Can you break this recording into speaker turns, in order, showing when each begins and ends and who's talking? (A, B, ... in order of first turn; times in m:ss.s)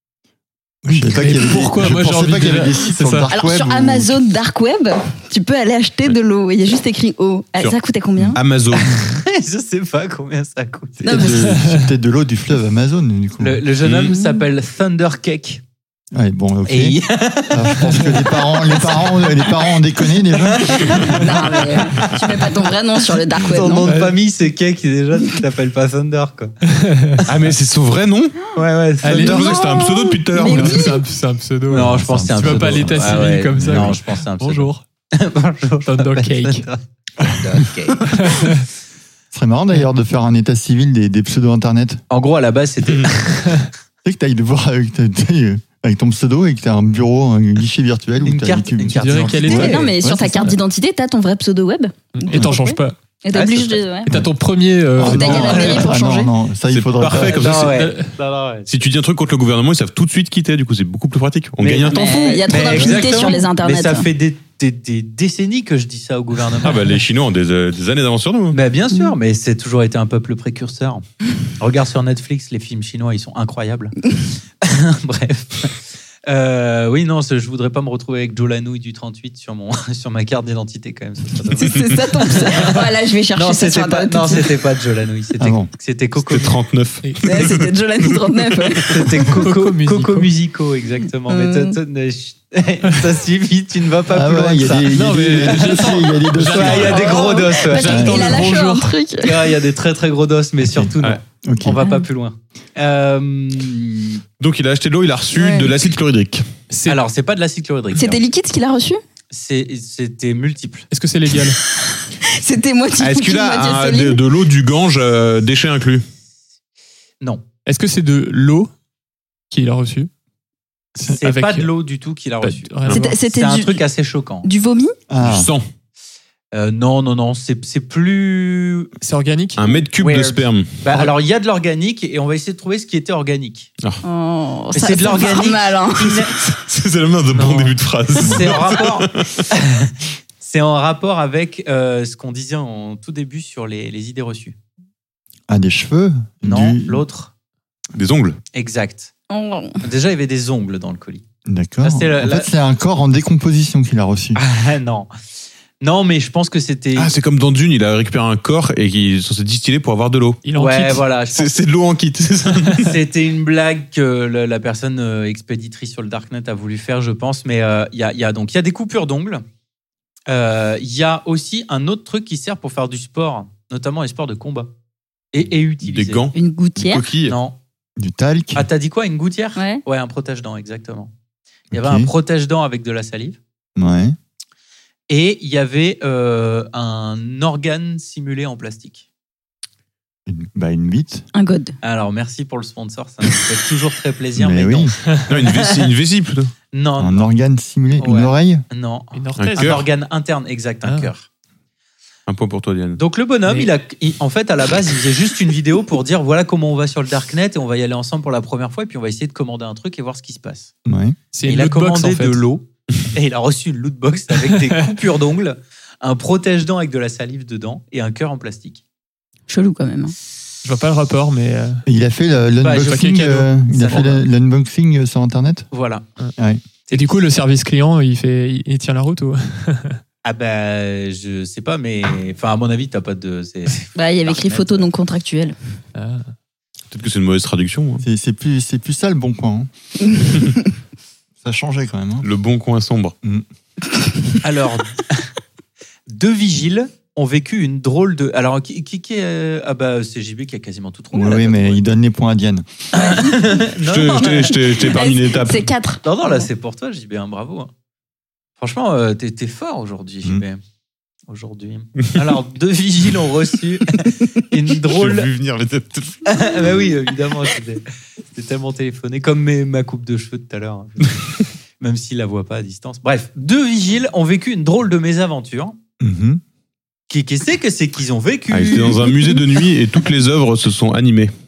0:00.8-0:04.2 A
0:01.1-0:03.3 B
0:03.3-0:08.4 C
0:08.3-0:08.9 D
0:08.9-0:11.3 E
0:11.0-0:13.6 A
0:11.0-0:11.5 C
0:11.4-0:11.8 B
0:13.4-0:15.6 E
0:13.8-0:14.1 D
0:14.0-0:14.4 C
0:16.1-0:21.2 A
0:16.7-0:19.6 E
0:20.4-0:22.1 E
0:21.1-0:23.9 C
0:23.3-0:26.5 E
0:26.7-0:27.2 B
0:27.2-0:28.4 D
0:28.5-0:29.5 E
0:29.0-0:29.5 B
0:29.1-0:30.9 D
0:29.4-0:31.0 C
0:30.4-0:34.8 B
0:31.7-0:38.2 E
0:31.7-0:34.0 A
0:35.8-0:36.7 B
0:38.1-0:38.6 B
0:39.3-0:42.0 A
0:42.1-0:43.6 E
0:44.0-0:50.5 A
0:48.2-0:49.8 E
0:48.9-0:49.9 B
0:49.5-0:54.2 C
0:52.1-0:53.0 B
0:53.3-0:53.8 E
0:54.0-0:55.8 B
0:54.9-0:57.5 A
0:55.0-0:56.3 C
0:55.3-0:55.8 E
0:56.7-0:57.8 D
0:57.1-0:58.7 E
0:57.4-0:58.1 B
0:58.7-1:02.4 D
1:01.6-1:06.8 E
1:01.8-1:04.1 C
1:06.6-1:08.6 D
1:08.5-1:11.0 E
1:11.6-1:13.9 E
1:14.6-1:26.6 E
1:21.6-1:24.5 C
1:25.4-1:25.7 A
1:26.2-1:28.2 D
1:27.0-1:27.3 B
1:27.2-1:29.0 C
1:28.8-1:38.4 E
1:29.4-1:30.3 B
1:31.3-1:31.8 C
1:34.1-1:37.1 A
1:34.9-1:38.9 B
1:36.8-1:39.5 C
1:37.8-1:38.4 A
1:39.2-1:44.2 E
1:40.6-1:41.8 A
1:41.8-1:42.0 C
1:44.4-1:46.5 D
1:45.4-1:45.7 C
1:46.7-1:47.0 B
1:46.8-1:48.2 E
1:47.9-1:49.0 C
1:49.3-1:50.9 E
1:50.9-1:51.6 B
1:51.9-1:54.2 C
1:53.0-1:56.0 D
1:57.6-1:58.7 B
1:59.5-2:00.1 B
2:01.0-2:04.5 E
2:01.2-2:01.7 B
2:02.4-2:03.2 B
2:02.9-2:03.8 C
2:04.4-2:04.9 C
2:05.1-2:05.5 A
2:05.2-2:05.6 D
2:06.5-2:08.9 E
2:09.0-2:09.6 B
2:09.6-2:11.0 D
2:10.0-2:13.7 E
2:14.0-2:16.2 C
2:14.7-2:16.4 E
2:16.4-2:19.4 D
2:17.4-2:17.7 B
2:18.2-2:24.6 E
2:25.5-2:27.0 A
2:26.4-2:27.3 E
2:27.9-2:28.4 D
2:28.5-2:29.1 E
2:29.3-2:29.8 C
2:29.8-2:31.2 E
2:31.4-2:34.4 A
2:31.8-2:32.5 E
2:34.3-2:35.1 E
2:35.8-2:37.1 E
2:37.0-2:40.4 D
2:40.4-2:41.0 B
2:40.6-2:41.5 E
2:41.3-2:42.9 D
2:42.8-2:49.4 E
2:50.3-2:54.7 E
2:55.3-2:56.3 E
2:55.8-2:57.4 D
2:56.3-2:57.1 C
2:57.3-2:57.6 E
2:58.0-2:58.7 A
2:58.5-3:01.1 E
2:59.6-2:59.8 C
3:01.7-3:02.1 A
3:01.7-3:03.4 E
3:03.8-3:04.2 A
3:05.1-3:09.0 E
3:10.2-3:11.2 A
3:11.3-3:11.7 C
3:11.8-3:15.9 E
3:14.4-3:14.9 A
3:15.3-3:16.5 D
3:16.7-3:17.3 E
3:17.0-3:18.6 A
3:18.0-3:21.3 E
3:19.1-3:19.8 B
3:19.4-3:19.8 D
3:20.8-3:21.1 B
3:22.3-3:23.0 D
3:23.0-3:30.7 E
3:30.8-3:31.2 A
3:31.3-3:32.4 B
3:31.4-3:38.8 E
3:39.5-3:40.1 C
3:40.6-3:41.8 B
3:41.9-3:45.7 A
3:42.6-3:44.2 E
3:42.8-3:43.4 B
3:45.7-3:46.0 E
3:46.9-3:47.2 E
3:46.9-3:50.0 B
3:50.2-3:54.9 E
3:54.0-3:55.5 C
3:56.0-3:56.2 B
3:56.9-3:58.0 D
3:58.0-3:59.7 A
4:00.2-4:00.5 C
4:01.4-4:02.2 A
4:02.2-4:03.2 D
4:04.4-4:05.3 E
4:06.1-4:11.8 E
4:11.1-4:12.6 A
4:12.9-4:14.6 E
4:13.0-4:13.4 C
4:13.8-4:15.7 D
4:14.1-4:16.4 C
4:16.0-4:17.7 E
4:18.6-4:20.6 E
4:21.3-4:25.3 E
4:24.9-4:26.3 D
4:26.2-4:35.8 E
4:36.0-4:36.4 A
4:37.1-4:39.3 E
4:38.5-4:41.3 D